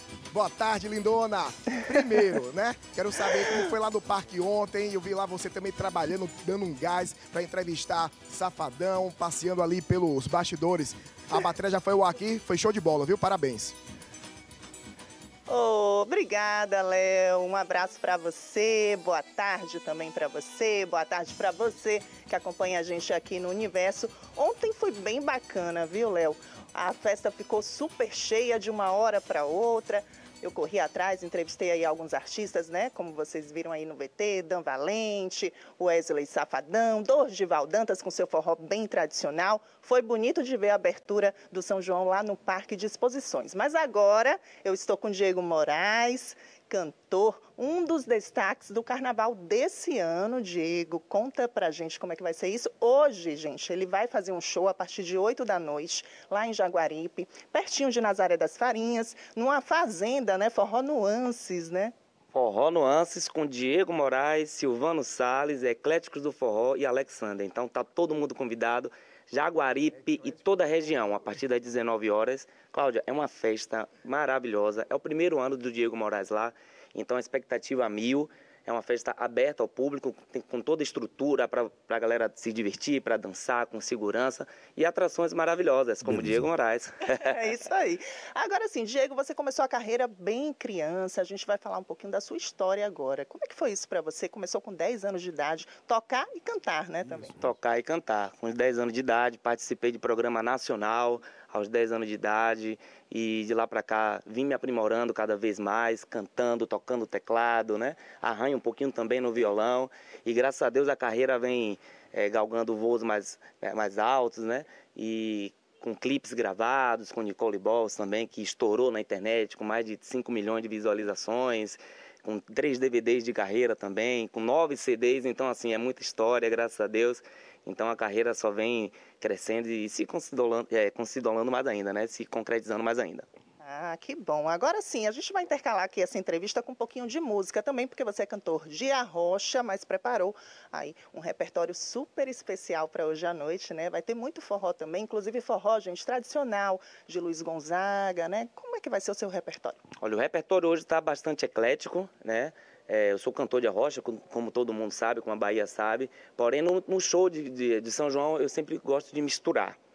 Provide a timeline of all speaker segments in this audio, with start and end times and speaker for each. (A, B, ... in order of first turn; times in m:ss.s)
0:00.3-0:13.8 A
0:15.5-1:01.9 B
1:02.3-1:27.4 C
1:27.2-1:37.4 B
1:37.4-2:13.3 C
2:13.6-2:29.8 B
2:30.0-2:39.8 C